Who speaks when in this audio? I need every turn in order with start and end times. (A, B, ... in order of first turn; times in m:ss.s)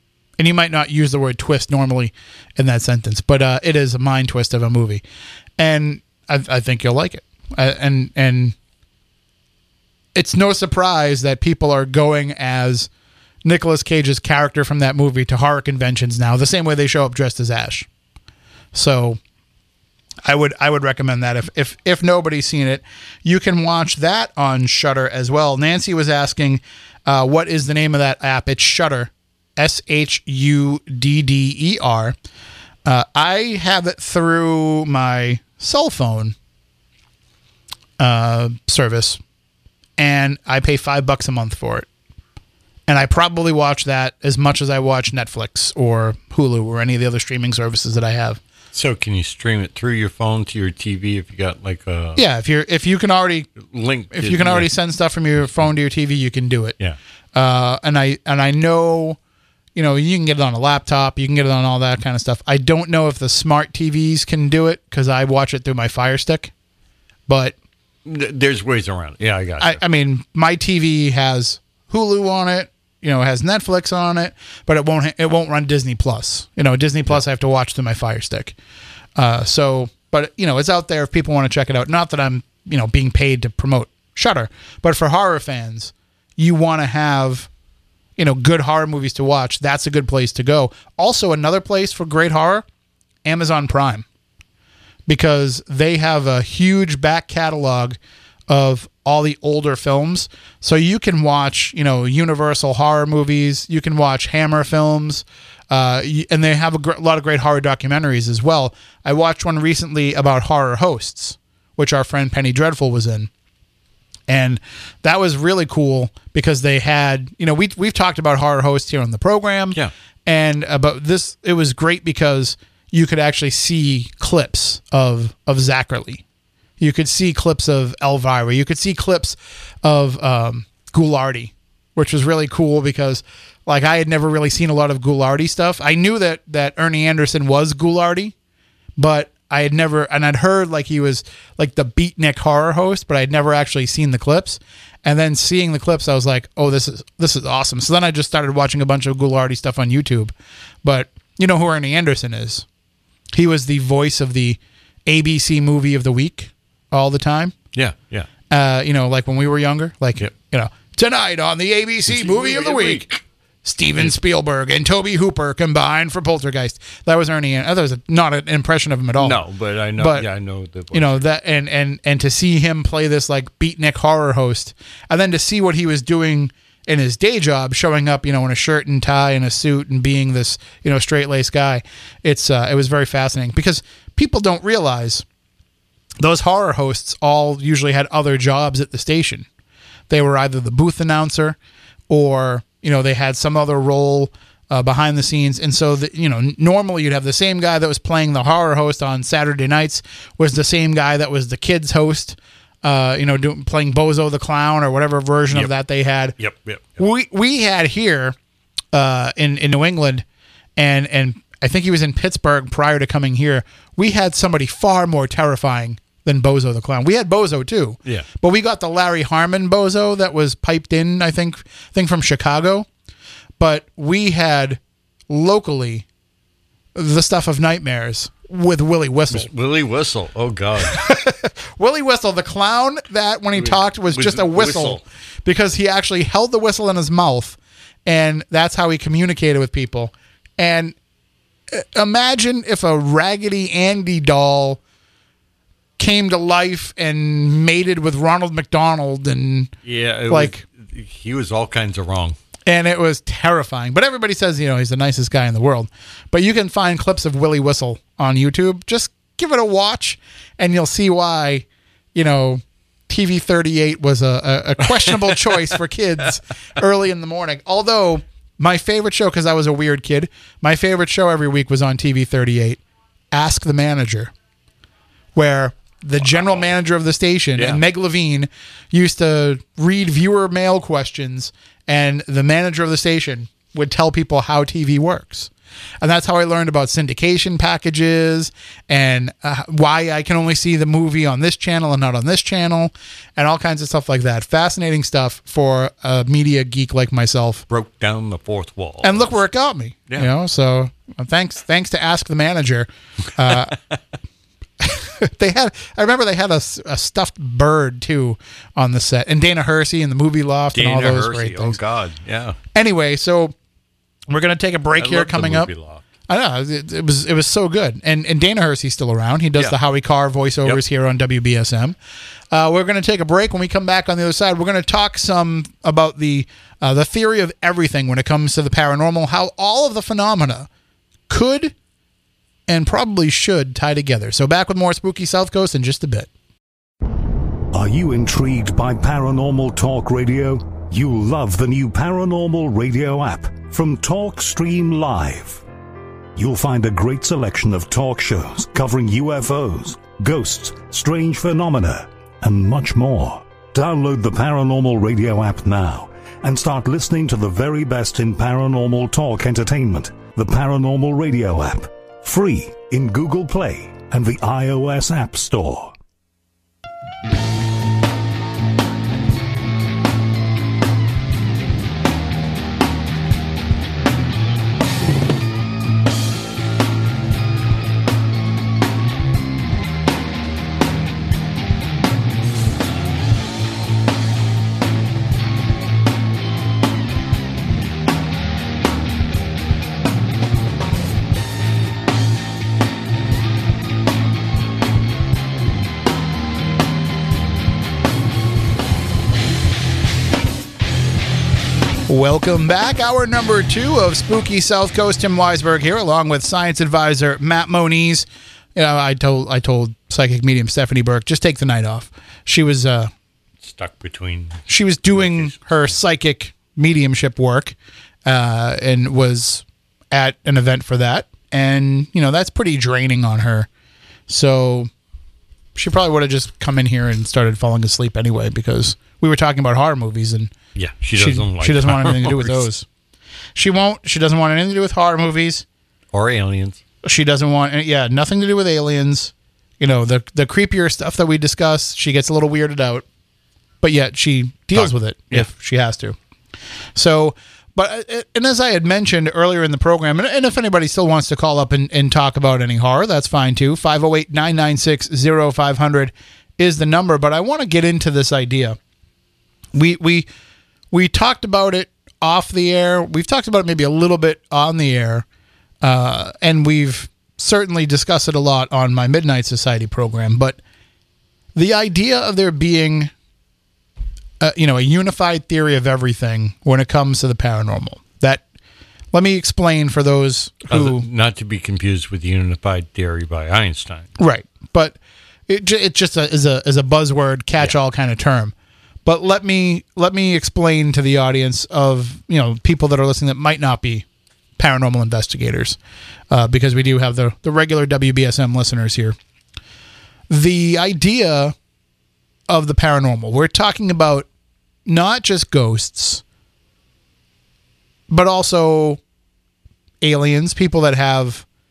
0:00.4-0:05.0 A
0:05.6-0:08.6 A
0:10.2-0:12.9 A
0:13.4-0:17.9 A
0:18.7-0:19.2 A
0:20.2-0:32.2 A
0:32.8-0:36.4 A
0:38.0-0:39.2 A
0:40.0-0:41.9 A
0:42.9-0:48.4 A
0:48.7-0:52.2 B
0:52.2-0:53.5 A
0:53.6-0:54.7 B
0:54.1-0:56.8 A
0:57.4-0:59.2 A
0:59.8-1:06.5 A
1:07.3-1:07.5 A
1:08.0-1:09.8 B
1:09.6-1:18.6 A
1:19.2-1:27.5 A
1:28.2-1:32.7 A
1:33.2-1:34.0 A
1:35.1-1:38.0 A
1:38.5-1:53.3 A
1:54.3-2:06.2 A
2:06.8-2:18.3 A
2:19.0-2:30.3 A
2:30.8-2:32.7 A
2:33.3-2:37.6 A
2:37.7-2:38.3 B
2:38.5-2:43.1 A
2:42.1-2:43.2 B
2:43.6-2:49.5 A
2:49.2-2:51.2 B
2:50.0-2:50.3 A
2:50.9-3:05.2 A
3:06.2-3:09.5 A
3:10.1-3:11.6 A
3:12.1-3:26.4 A
3:26.4-3:27.0 B
3:27.0-3:28.4 A
3:28.9-3:30.2 A
3:30.8-3:42.9 A
3:43.6-3:46.1 A
3:47.0-3:49.5 A
3:49.3-3:51.0 B
3:50.9-4:01.0 A
3:53.6-3:55.0 B
4:01.7-4:04.8 A
4:06.0-4:09.7 A
4:09.8-4:12.4 B
4:10.3-4:10.6 A
4:12.7-4:32.8 A
4:25.1-4:25.4 B
4:33.3-4:34.3 A
4:35.4-4:57.6 A
4:37.6-4:37.8 B
4:57.7-4:59.4 B
4:59.0-5:03.8 A
5:03.5-5:04.0 B
5:04.8-5:11.8 A
5:10.7-5:12.6 B
5:12.7-5:13.5 A
5:14.3-5:15.7 A
5:15.0-5:16.0 B
5:16.3-5:22.0 A
5:22.5-5:30.7 A
5:31.3-5:31.7 A
5:32.7-5:36.3 A
5:37.7-5:45.6 C
5:46.4-6:05.9 C
6:42.1-6:53.1 A
6:53.6-6:55.6 B
6:54.7-7:03.7 A
7:04.3-7:04.9 A
7:05.8-7:10.5 A
7:10.8-7:12.7 B
7:11.2-7:12.9 A
7:13.6-7:15.6 A
7:16.1-7:16.8 B
7:17.0-7:23.0 A
7:23.8-7:26.2 A
7:24.8-7:25.5 B
7:27.0-7:38.8 A
7:39.7-7:40.3 A
7:40.9-7:45.2 A
7:45.8-7:50.6 A
7:51.6-7:53.1 A
7:54.4-7:58.4 A
7:59.1-8:01.0 A
8:00.7-8:04.1 B
8:04.2-8:05.0 A
8:05.5-8:08.5 A
8:09.0-8:14.0 A
8:14.6-8:15.8 A
8:16.3-8:19.2 A
8:20.3-8:21.6 A
8:22.5-8:24.3 A
8:24.9-8:26.2 A
8:28.1-8:29.0 A
8:30.0-8:31.4 A